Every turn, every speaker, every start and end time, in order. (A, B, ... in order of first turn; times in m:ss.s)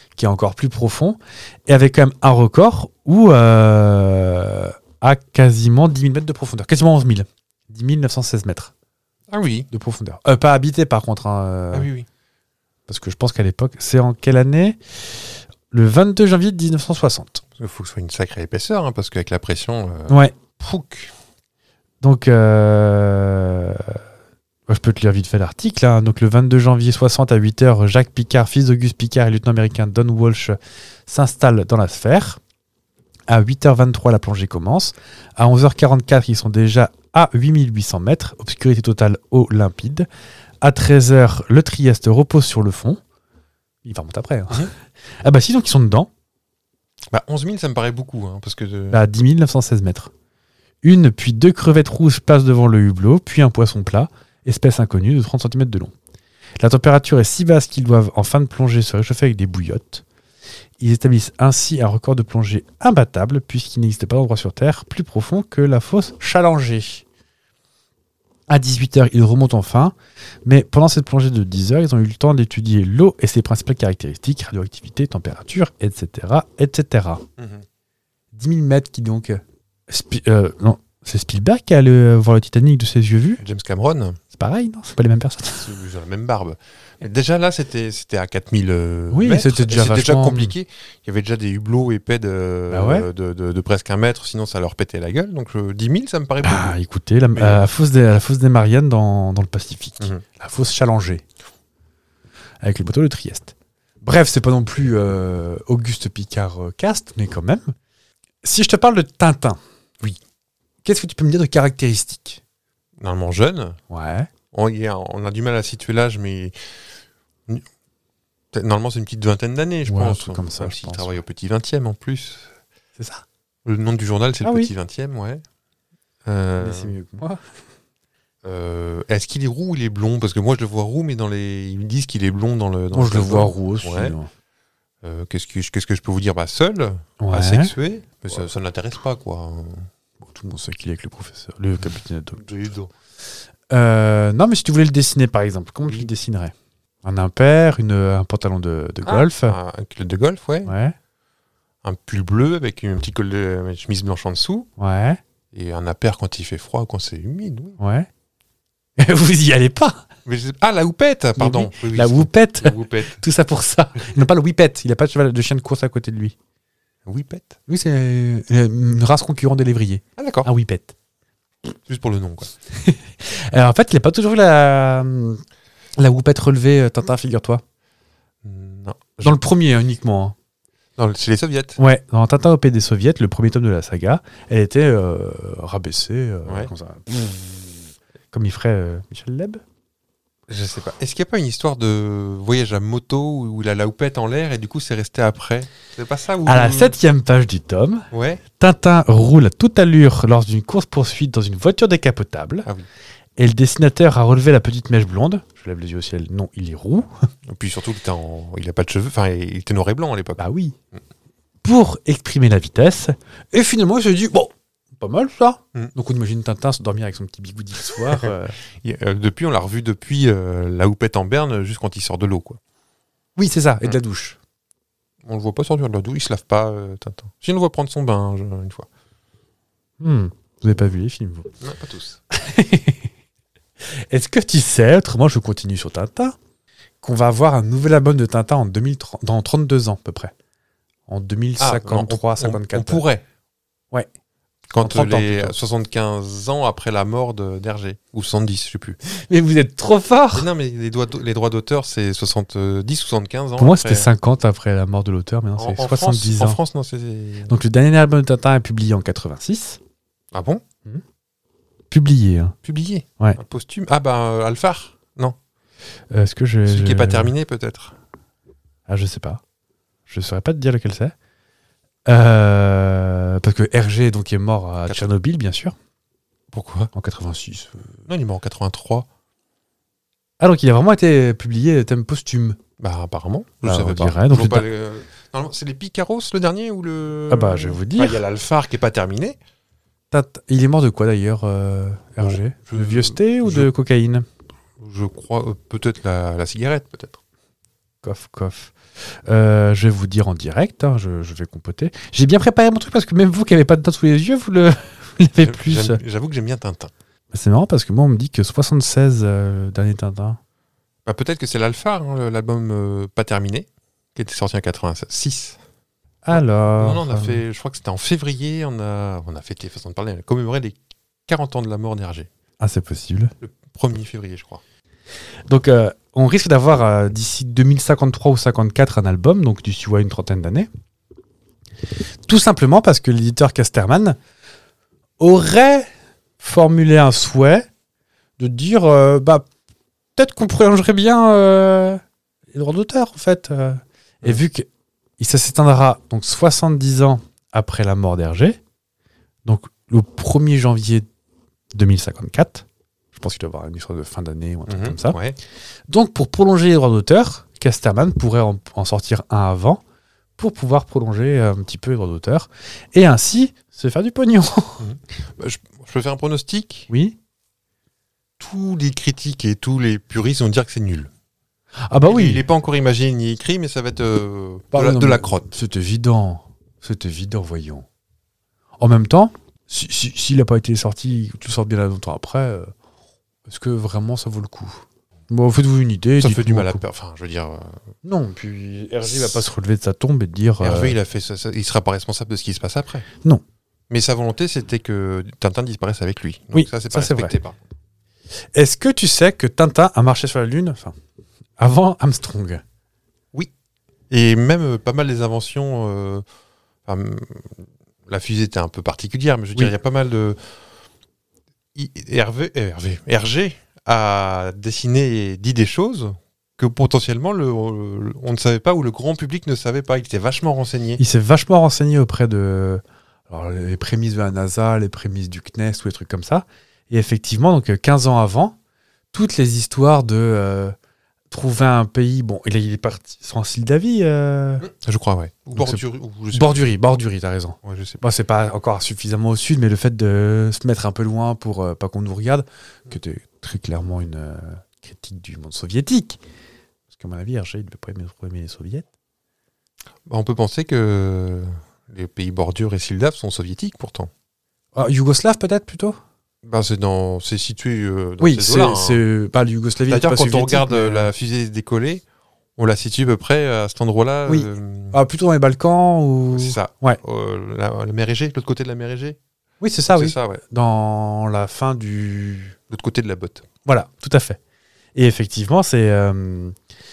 0:00.2-0:08.7 A
0:09.3-0:09.7 B
0:09.7-0:11.9 A
0:11.7-0:12.1 B
0:12.9-0:14.8 A
0:15.7-0:17.4 A
0:17.6-0:21.1 B
0:20.1-0:20.4 A
0:22.0-0:24.0 A
0:24.7-0:30.6 A
0:31.1-0:32.4 A
0:33.3-0:40.1 A
0:40.6-0:43.0 A
0:43.8-0:46.1 A
0:47.1-0:49.0 B
0:48.9-0:50.1 A
0:50.8-0:55.9 A
0:56.6-1:00.0 A
1:00.8-1:07.0 A
1:08.5-1:17.2 A
1:17.4-1:17.6 B
1:18.3-1:23.4 A
1:23.4-1:24.2 B
1:24.3-1:25.7 A
1:25.6-1:36.8 B
1:29.1-1:30.5 A
1:32.7-1:33.1 A
1:36.4-1:41.2 A
1:37.4-1:37.6 B
1:42.6-1:47.8 A
1:48.4-1:49.6 A
1:50.8-1:52.4 A
1:53.0-1:53.8 B
1:53.9-1:54.3 A
1:54.5-1:56.6 B
1:58.5-2:02.5 B
1:59.9-2:01.2 A
2:03.0-2:03.2 A
2:03.6-2:05.4 B
2:04.4-2:04.7 A
2:06.3-2:07.0 B
2:06.6-2:07.4 A
2:08.4-2:14.2 B
2:12.9-2:14.3 A
2:15.0-2:19.9 B
2:17.2-2:17.7 A
2:20.2-2:22.4 A
2:22.4-2:22.9 B
2:23.7-2:29.6 A
2:29.0-2:30.7 B
2:30.6-2:31.0 A
2:31.8-2:34.7 B
2:34.8-2:35.2 A
2:35.5-2:37.8 B
2:37.8-2:38.1 A
2:39.0-2:40.0 A
2:40.2-2:43.2 B
2:41.4-2:46.4 A
2:47.1-2:47.6 B
2:47.7-2:50.9 A
2:50.2-2:50.5 B
2:51.9-2:52.5 B
2:52.8-2:55.4 A
2:56.0-2:57.6 A
2:58.4-2:59.3 B
2:59.2-3:00.4 A
3:01.0-3:01.8 B
3:01.8-3:09.6 A
3:06.5-3:06.7 B
3:10.5-3:17.0 B
3:16.5-3:22.7 A
3:18.1-3:18.4 B
3:23.4-3:27.1 A
3:27.5-3:31.0 B
3:30.4-3:30.8 A
3:31.6-3:38.6 A
3:38.8-3:42.6 B
3:43.4-3:44.4 A
3:45.2-3:48.9 B
3:50.0-3:51.5 A
3:51.6-3:52.2 B
3:52.3-3:53.1 A
3:53.9-3:56.4 A
3:57.0-4:00.3 A
4:01.1-4:03.0 A
4:01.6-4:03.2 B
4:04.7-4:09.0 B
4:04.8-4:05.6 A
4:09.1-4:10.5 A
4:10.3-4:14.1 B
4:13.6-4:16.6 A
4:15.6-4:17.5 B
4:17.5-4:19.8 A
4:20.3-4:20.6 B
4:21.9-4:22.6 A
4:22.6-4:25.4 B
4:26.1-4:27.3 A
4:26.7-4:28.0 B
4:28.9-4:29.4 A
4:30.1-4:31.1 A
4:32.1-4:35.8 A
4:36.5-4:36.9 B
4:36.9-4:38.0 A
4:38.1-4:39.1 B
4:40.4-4:42.6 A
4:42.8-4:49.4 B
4:43.6-4:44.7 A
4:47.3-4:48.2 A
4:50.1-4:54.2 A
4:52.2-4:53.7 B
4:54.8-4:57.2 B
4:58.0-4:58.7 A
4:59.3-5:06.0 A
5:05.4-5:06.9 B
5:07.3-5:10.4 A
5:11.1-5:15.6 B
5:16.2-5:17.4 A
5:16.3-5:22.3 B
5:22.6-5:23.3 A
5:23.4-5:24.6 B
5:25.5-5:30.7 A
5:32.3-5:34.2 A
5:35.2-5:35.9 A
5:36.4-5:37.7 A
5:38.4-5:39.5 A
5:40.2-5:42.0 A
5:42.5-5:44.7 A
5:45.2-5:48.6 A
5:49.4-5:51.1 A
5:51.7-5:55.2 A
5:54.7-5:55.4 B
5:55.9-5:59.8 A
6:00.4-6:04.9 A
6:04.8-6:06.9 B
6:06.9-6:07.2 A
6:08.4-6:11.1 B
6:11.8-6:12.4 A
6:12.1-6:15.5 B
6:14.7-6:17.9 A
6:18.8-6:22.7 A
6:23.5-6:26.8 A
6:26.2-6:27.8 B
6:28.0-6:31.0 A
6:29.0-6:29.5 B
6:30.6-6:33.1 B
6:33.9-6:37.6 B
6:36.5-6:37.3 A
6:38.5-6:41.0 A
6:41.6-6:42.6 A
6:44.1-6:46.2 B
6:46.9-6:50.4 B
6:51.8-7:01.0 B
7:01.0-7:08.6 A
7:09.1-7:10.8 A
7:11.3-7:14.7 A
7:14.6-7:16.7 B
7:15.6-7:15.8 A
7:16.3-7:26.2 A
7:17.6-7:18.0 B
7:26.9-7:28.9 A
7:30.1-7:34.1 B
7:34.8-7:36.0 A
7:36.4-7:39.0 B
7:38.2-7:41.1 A
7:39.9-7:42.0 B
7:42.6-7:45.0 B
7:44.3-7:47.0 A
7:46.3-7:49.2 B
7:49.6-7:52.6 A
7:49.9-7:50.4 B
7:52.7-7:53.5 B
7:53.6-7:54.4 A
7:55.0-7:56.5 A